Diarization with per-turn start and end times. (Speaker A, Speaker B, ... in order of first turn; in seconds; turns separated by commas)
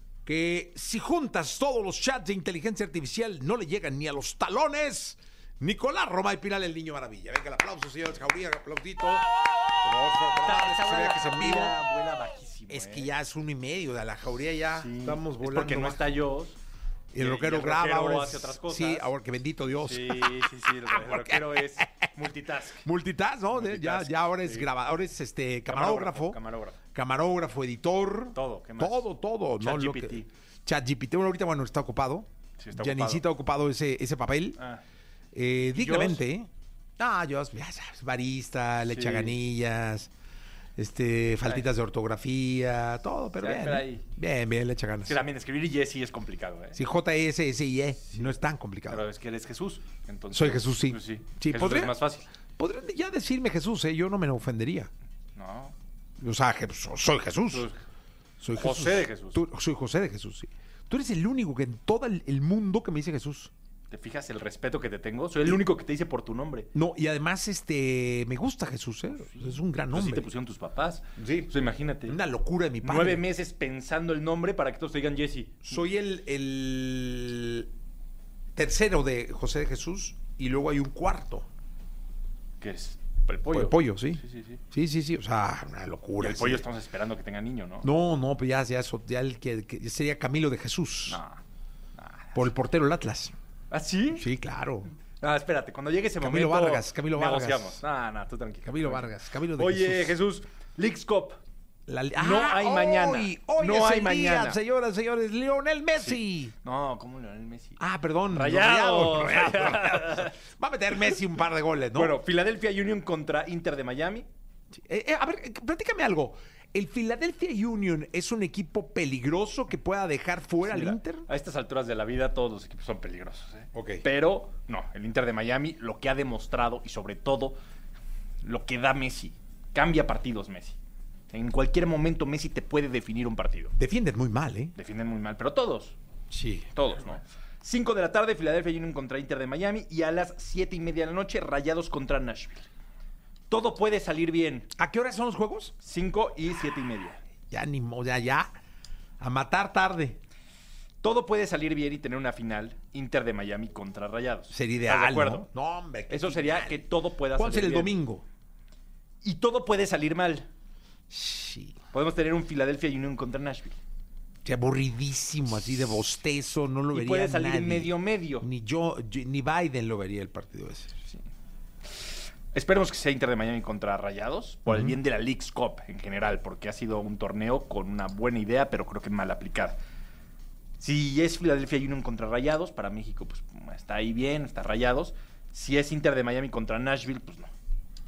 Speaker A: 0.2-11.8, Speaker B: 10.4-13.1, Speaker A: 12.7-16.2, Speaker B: 14.8-16.6, Speaker A: 17.1-22.1, Speaker B: 17.1-19.1, Speaker B: 19.8-22.9, Speaker A: 22.8-26.4, Speaker B: 23.5-24.7, Speaker B: 25.6-26.8, Speaker A: 26.9-34.6, Speaker B: 28.3-29.1, Speaker B: 29.6-30.3, Speaker B: 32.6-33.2, Speaker B: 34.6-34.8, Speaker A: 35.3-40.1, Speaker B: 35.7-36.2, Speaker B: 38.9-39.4, Speaker A: 40.8-45.2, Speaker B: 43.4-44.0, Speaker B: 45.0-46.8, Speaker A: 46.7-49.0, Speaker B: 48.9-52.3, Speaker A: 50.3-51.9, Speaker A: 52.6-54.9, Speaker B: 55.4-55.7, Speaker A: 56.2-57.7, Speaker B: 57.5-57.8, Speaker A: 58.4-63.5, Speaker B: 58.5-59.4, Speaker B: 63.9-66.7, Speaker A: 66.7-70.3, Speaker B: 69.1-72.2, Speaker A: 71.2-71.5, Speaker A: 72.0-73.2, Speaker B: 72.8-75.8, Speaker A: 75.7-77.7, Speaker A: 78.5-81.5, Speaker B: 82.6-84.6, Speaker A: 83.5-86.7, Speaker B: 86.2-87.9, Speaker A: 87.8-91.2, Speaker B: 91.1-91.4, Speaker B: 92.0-92.5, Speaker A: 92.3-93.3, Speaker B: 93.7-94.3, Speaker A: 94.1-94.9, Speaker B: 95.2-101.4, Speaker A: 96.2-97.8, Speaker A: 98.6-100.2, Speaker A: 101.9-106.5, Speaker B: 102.2-104.6, Speaker B: 105.9-110.3, Speaker A: 107.8-112.2, Speaker B: 111.9-114.3, Speaker A: 114.7-121.2, Speaker B: 120.6-127.6, Speaker A: 123.7-124.0, Speaker B: 128.4-130.8, Speaker B: 131.3-133.7, Speaker A: 133.8-134.7, Speaker B: 134.8-136.0, Speaker A: 136.3-136.7, Speaker B: 136.7-142.7, Speaker B: 143.5-144.7, Speaker A: 144.7-145.7, Speaker B: 145.8-147.2, Speaker A: 147.5-148.5, Speaker A: 149.2-150.2, Speaker B: 151.0-155.5, Speaker A: 154.5-158.2, Speaker B: 156.1-158.0, Speaker B: 159.2-160.5, Speaker A: 161.1-161.7, Speaker B: 161.9-163.8, Speaker A: 164.4-170.9, Speaker B: 166.9-168.5, Speaker B: 172.5-179.8, Speaker A: 174.7-175.0, Speaker B: 180.8-187.5